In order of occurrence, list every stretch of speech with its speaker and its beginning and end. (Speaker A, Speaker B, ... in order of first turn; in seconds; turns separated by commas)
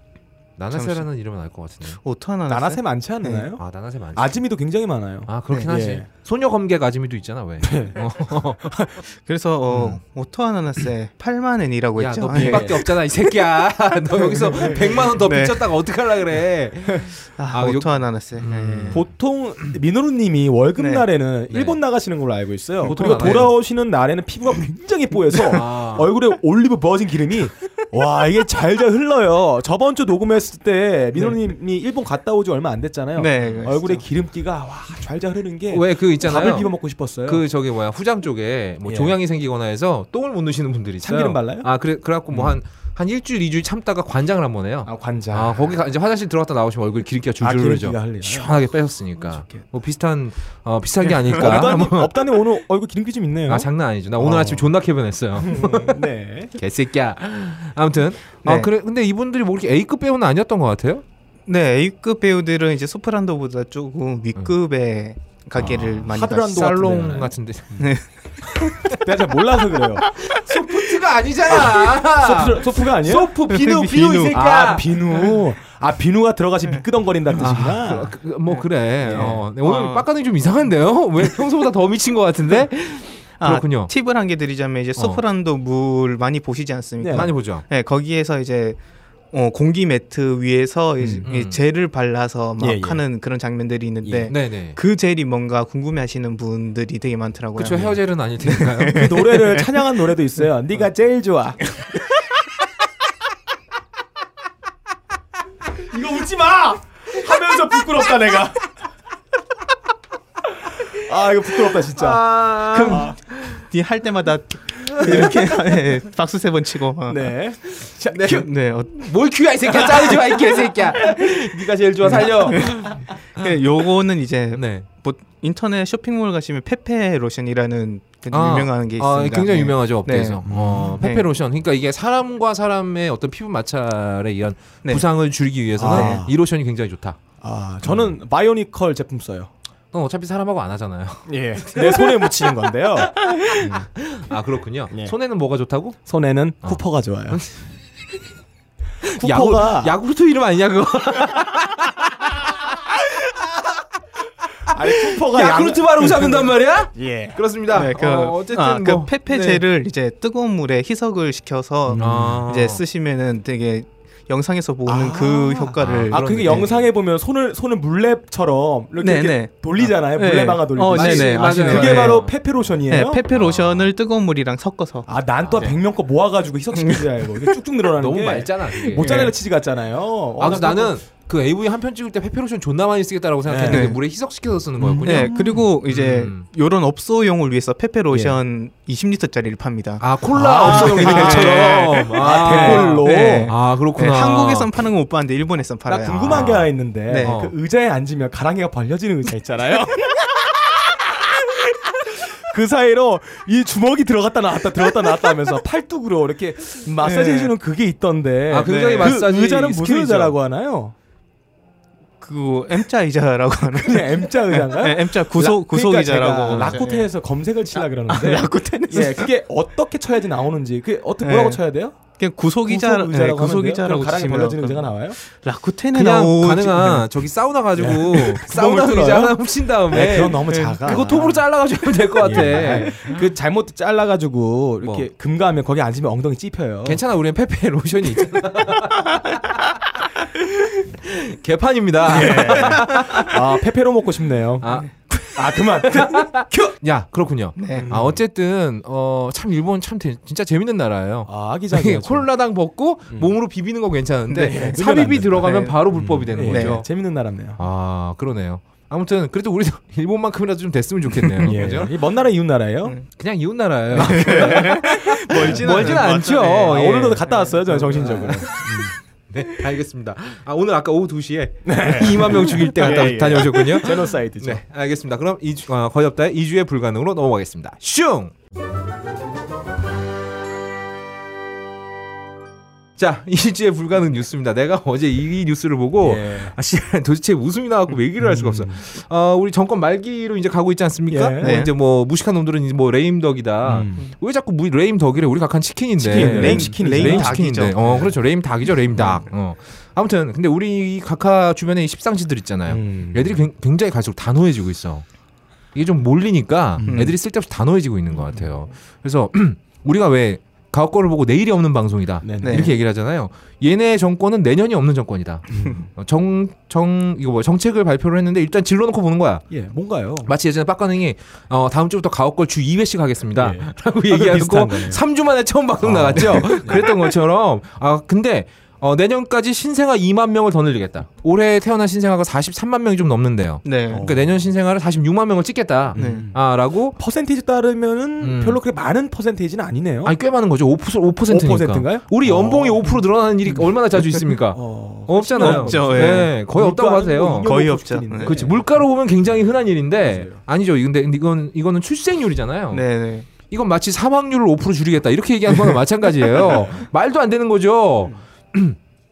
Speaker A: 0.6-2.0, Speaker B: 0.7-1.1, Speaker B: 2.0-3.5, Speaker C: 2.5-3.6, Speaker A: 3.6-4.4, Speaker C: 4.2-6.1, Speaker A: 5.3-8.7, Speaker C: 7.6-8.0, Speaker C: 8.6-8.9, Speaker B: 9.1-12.9, Speaker A: 9.7-10.0, Speaker A: 12.0-19.1, Speaker C: 12.3-12.9, Speaker B: 14.2-15.7, Speaker C: 14.5-15.1, Speaker B: 17.4-19.0, Speaker C: 18.9-37.4, Speaker B: 20.8-21.1, Speaker A: 21.5-21.8, Speaker A: 22.8-23.5, Speaker A: 25.4-26.1, Speaker B: 33.2-34.0, Speaker A: 35.7-36.7, Speaker A: 37.3-52.3, Speaker C: 38.9-39.1, Speaker C: 41.0-41.7, Speaker C: 42.3-42.6, Speaker C: 44.9-45.8, Speaker C: 47.4-48.6, Speaker C: 49.2-49.6, Speaker C: 51.1-54.7, Speaker A: 53.5-61.0, Speaker C: 55.4-56.5, Speaker B: 58.4-58.7, Speaker B: 61.5-66.8, Speaker A: 65.6-67.9, Speaker C: 65.7-67.9, Speaker B: 67.8-68.9, Speaker A: 68.6-69.0, Speaker C: 68.9-70.1, Speaker B: 70.0-70.9, Speaker A: 70.2-75.0, Speaker C: 71.5-73.3, Speaker B: 73.5-74.4, Speaker C: 74.3-78.1, Speaker A: 77.4-83.9, Speaker B: 78.5-80.1, Speaker C: 79.1-79.3, Speaker B: 83.4-88.8, Speaker C: 87.0-87.3, Speaker A: 87.1-87.7, Speaker B: 89.3-100.1, Speaker C: 91.0-91.3, Speaker A: 91.2-91.6, Speaker C: 92.6-93.0, Speaker C: 94.0-94.3, Speaker A: 94.3-94.8, Speaker A: 97.6-99.1, Speaker C: 98.9-101.7, Speaker C: 105.9-108.6, Speaker C: 110.8-112.3, Speaker A: 111.9-113.6, Speaker B: 112.7-117.3, Speaker C: 112.8-113.1, Speaker A: 114.8-115.3, Speaker C: 115.0-115.3, Speaker C: 117.1-118.5, Speaker A: 117.7-123.1, Speaker B: 118.3-119.1, Speaker B: 119.7-120.2, Speaker B: 122.1-131.3, Speaker A: 124.5-124.9, Speaker A: 128.3-137.2, Speaker C: 130.5-131.0, Speaker C: 135.8-136.3, Speaker B: 135.9-136.3, Speaker C: 137.4-139.5, Speaker A: 137.8-138.2, Speaker A: 139.9-142.1, Speaker C: 141.3-143.9, Speaker B: 143.3-143.7, Speaker A: 143.4-146.0, Speaker C: 146.1-147.4, Speaker A: 146.6-147.5, Speaker C: 149.1-149.9, Speaker A: 149.1-152.5, Speaker A: 154.7-159.6, Speaker C: 154.7-157.4, Speaker B: 157.7-166.7, Speaker C: 161.9-162.4, Speaker A: 162.0-162.8, Speaker C: 164.9-173.2, Speaker A: 165.8-166.9, Speaker B: 169.0-172.3, Speaker A: 170.9-172.3, Speaker B: 172.9-175.8, Speaker A: 173.3-173.9, Speaker C: 175.1-180.9, Speaker B: 176.7-177.6, Speaker A: 178.0-179.2, Speaker B: 179.0-179.3, Speaker A: 180.4-186.5, Speaker C: 183.5-184.0, Speaker B: 183.7-184.0, Speaker C: 184.8-185.6, Speaker B: 185.0-197.4, Speaker C: 188.1-188.4, Speaker A: 190.0-194.7, Speaker C: 190.4-193.5, Speaker C: 195.9-210.9, Speaker A: 196.2-196.7, Speaker A: 197.2-197.5, Speaker B: 207.0-207.5, Speaker A: 208.5-210.3, Speaker B: 208.6-209.2, Speaker B: 212.2-217.1, Speaker C: 213.7-221.9, Speaker B: 217.7-219.3, Speaker B: 221.2-221.6, Speaker B: 222.2-227.1, Speaker C: 222.7-225.2, Speaker A: 225.9-233.1, Speaker C: 227.8-231.4, Speaker B: 230.5-231.0, Speaker C: 232.2-237.0, Speaker A: 234.8-235.1, Speaker A: 236.8-239.7, Speaker A: 240.9-243.4, Speaker C: 242.1-244.7, Speaker B: 242.6-243.2, Speaker A: 244.6-256.9, Speaker C: 245.3-246.3, Speaker B: 247.6-247.9, Speaker C: 247.7-248.2, Speaker C: 251.3-252.3, Speaker C: 253.1-253.3, Speaker C: 254.3-257.6, Speaker B: 254.5-254.8, Speaker B: 255.4-255.7, Speaker B: 256.4-256.8, Speaker A: 257.6-261.9, Speaker C: 261.4-263.0, Speaker A: 263.1-267.3, Speaker C: 263.9-268.9, Speaker B: 263.9-268.5, Speaker A: 267.9-268.7, Speaker A: 269.3-278.3, Speaker C: 271.6-274.6, Speaker A: 283.0-305.1, Speaker C: 286.0-286.6, Speaker C: 288.2-288.8, Speaker C: 291.1-291.6, Speaker B: 291.4-291.7, Speaker C: 293.6-294.1, Speaker C: 296.0-298.1, Speaker B: 296.1-297.8, Speaker C: 302.7-303.4, Speaker A: 305.7-319.4, Speaker B: 306.9-307.1, Speaker C: 308.2-308.5, Speaker C: 312.2-312.7, Speaker B: 312.4-312.7, Speaker C: 315.5-315.9, Speaker C: 319.5-320.3, Speaker A: 320.2-337.0, Speaker C: 323.4-325.0, Speaker C: 325.8-327.1, Speaker B: 333.6-334.1, Speaker C: 333.9-334.4, Speaker C: 335.9-336.4, Speaker B: 336.0-336.3, Speaker C: 337.0-340.1, Speaker A: 338.2-338.6, Speaker A: 340.1-347.5, Speaker C: 341.3-343.0, Speaker C: 344.5-348.8, Speaker B: 345.4-346.3, Speaker B: 347.4-348.4, Speaker A: 348.2-352.9, Speaker C: 350.0-350.4, Speaker B: 352.7-353.3, Speaker A: 353.5-358.8, Speaker C: 356.3-356.9